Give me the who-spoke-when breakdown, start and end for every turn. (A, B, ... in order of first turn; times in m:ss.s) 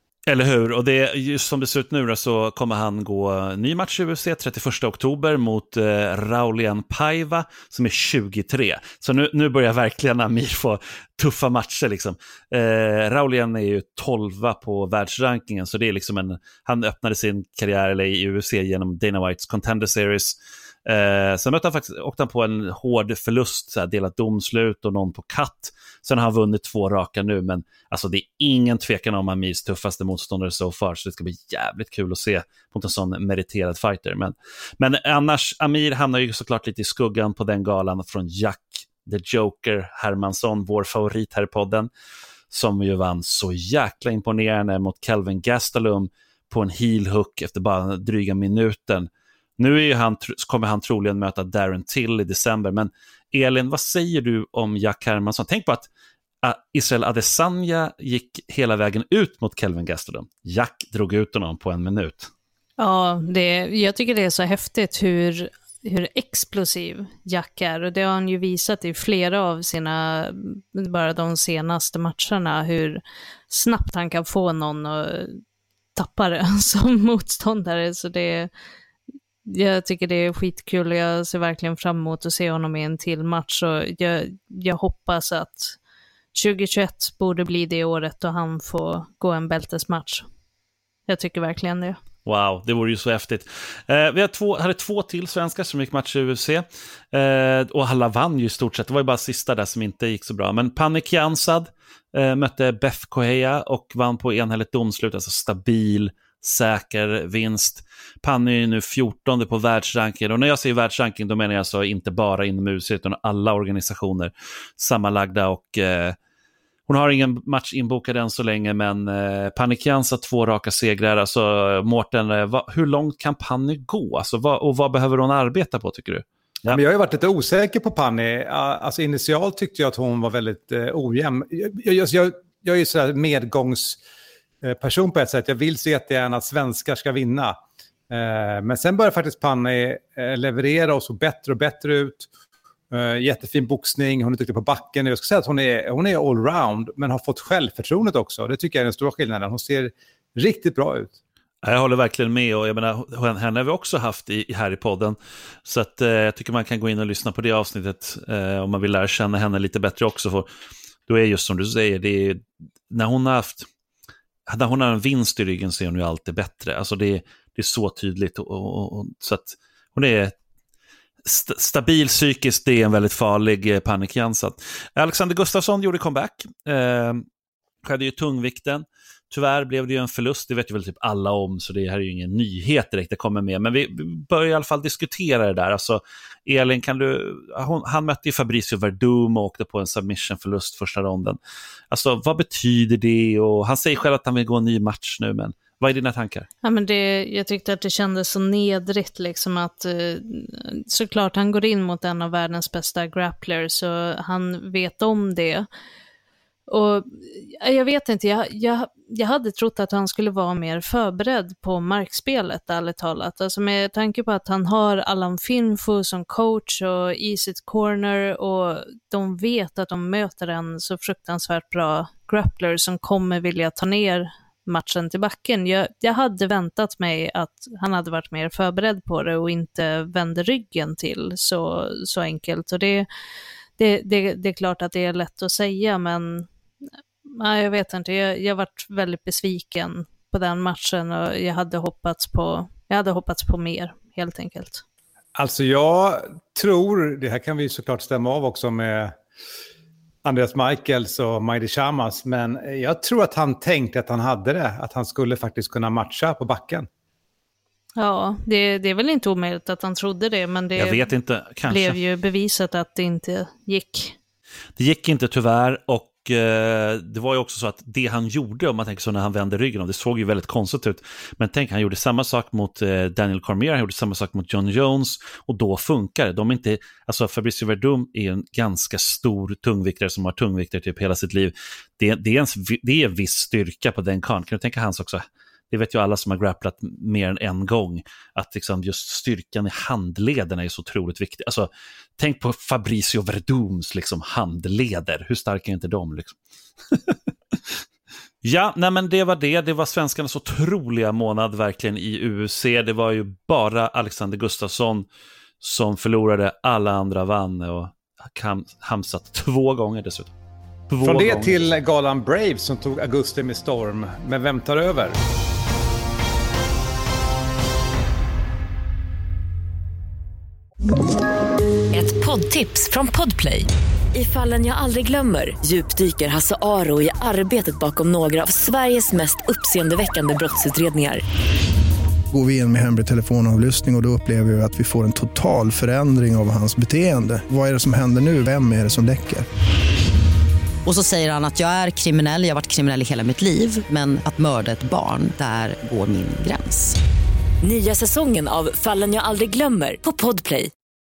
0:00.3-0:41.9 A
0:42.5-0:55.9 A
0:56.4-1:02.3 A
1:02.8-1:15.4 B
1:16.0-1:18.5 B
1:19.5-1:25.8 B
1:26.3-1:30.2 B
1:31.1-1:32.0 B
1:32.2-1:56.2 A
1:56.9-2:06.8 A
2:06.7-2:14.0 C
2:14.6-2:17.6 C
2:18.1-2:22.3 C
2:22.9-2:31.2 C
2:31.6-2:40.5 A
2:41.1-2:43.7 A
2:44.5-2:50.3 A
2:51.2-2:57.2 A
2:57.8-3:11.4 A
3:11.9-3:16.5 A
3:16.6-3:25.7 B
3:26.7-3:53.1 B
3:53.8-3:56.5 B
3:57.3-4:04.8 B
4:05.4-4:09.2 C
4:10.2-4:16.9 C
4:18.0-4:21.1 B
4:20.8-4:22.0 A
4:21.7-4:24.2 B
4:24.8-4:56.4 A
4:58.4-5:05.1 A
5:05.6-5:10.3 A
5:10.9-5:11.6 A
5:11.0-5:15.2 C
5:21.9-5:31.2 D
5:32.3-5:39.5 E
5:40.8-5:47.0 F
5:47.6-5:50.7 D